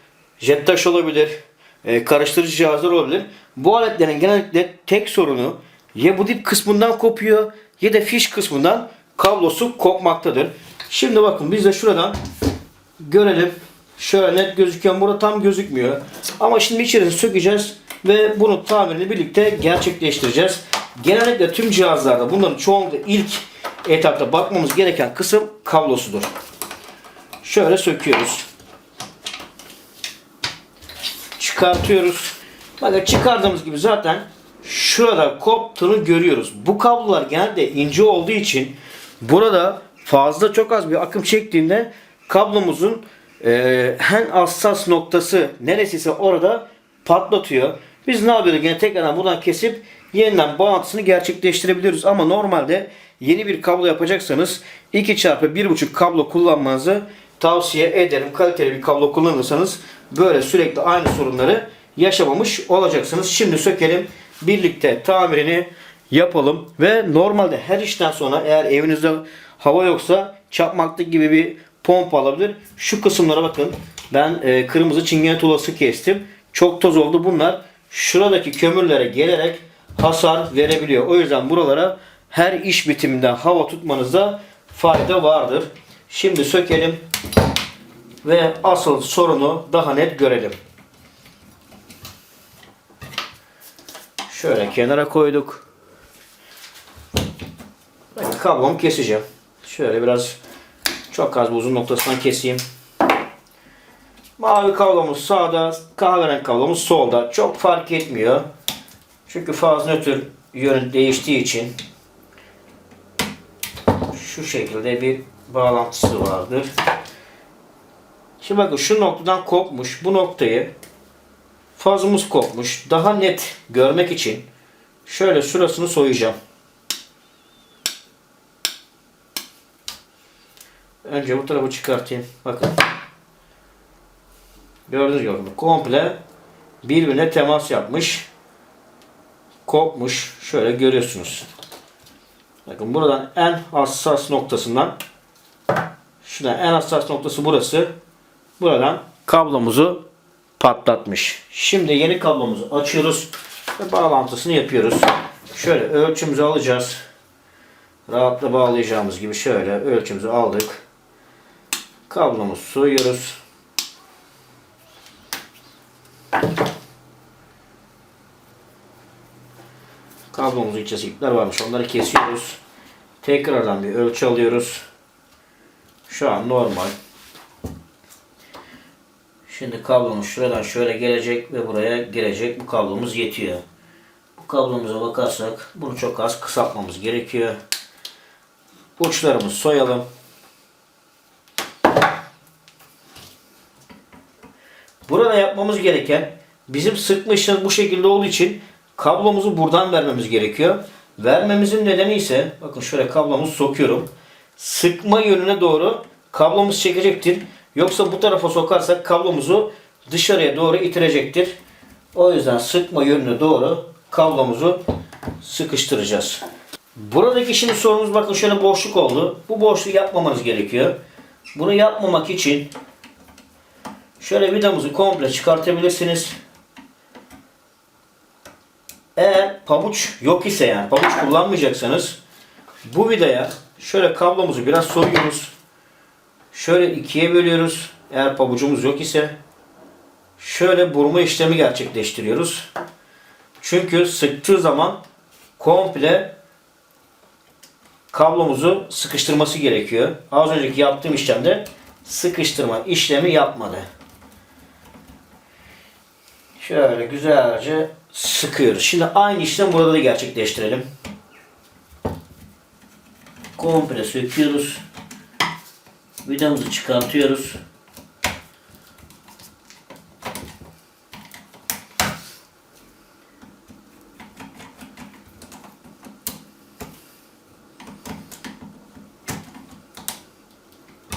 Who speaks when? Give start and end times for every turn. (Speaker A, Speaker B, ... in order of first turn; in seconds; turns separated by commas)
Speaker A: 0.4-12.2, Speaker A: 13.0-26.3, Speaker A: 27.4-28.4, Speaker A: 31.4-87.0, Speaker A: 88.2-90.6, Speaker A: 94.3-95.7, Speaker A: 98.1-100.4, Speaker A: 101.1-102.6, Speaker A: 104.4-108.5, Speaker A: 109.2-111.7, Speaker A: 114.1-116.7, Speaker A: 118.4-120.7, Speaker A: 121.7-124.5, Speaker A: 125.0-126.3, Speaker A: 131.0-132.8, Speaker A: 134.9-136.2, Speaker A: 136.8-138.3, Speaker A: 139.7-141.5, Speaker A: 142.7-144.9, Speaker A: 146.2-147.9, Speaker A: 148.6-150.0, Speaker A: 150.6-157.0, Speaker A: 158.1-160.8, Speaker A: 162.1-163.4, Speaker A: 170.3-172.6, Speaker A: 173.2-174.8, Speaker A: 176.1-176.9, Speaker A: 179.5-183.6, Speaker A: 184.4-187.6, Speaker A: 189.0-190.1, Speaker A: 195.1-211.6, Speaker A: 212.1-214.8, Speaker A: 215.4-216.4, Speaker A: 217.0-220.9, Speaker A: 221.5-222.7, Speaker A: 224.2-226.3, Speaker A: 229.2-232.2, Speaker A: 232.8-235.5, Speaker A: 236.5-239.3, Speaker A: 240.4-242.7, Speaker A: 243.6-245.0, Speaker A: 245.6-246.3, Speaker A: 248.1-253.8, Speaker A: 256.6-260.9, Speaker A: 263.6-264.8, Speaker A: 266.2-267.6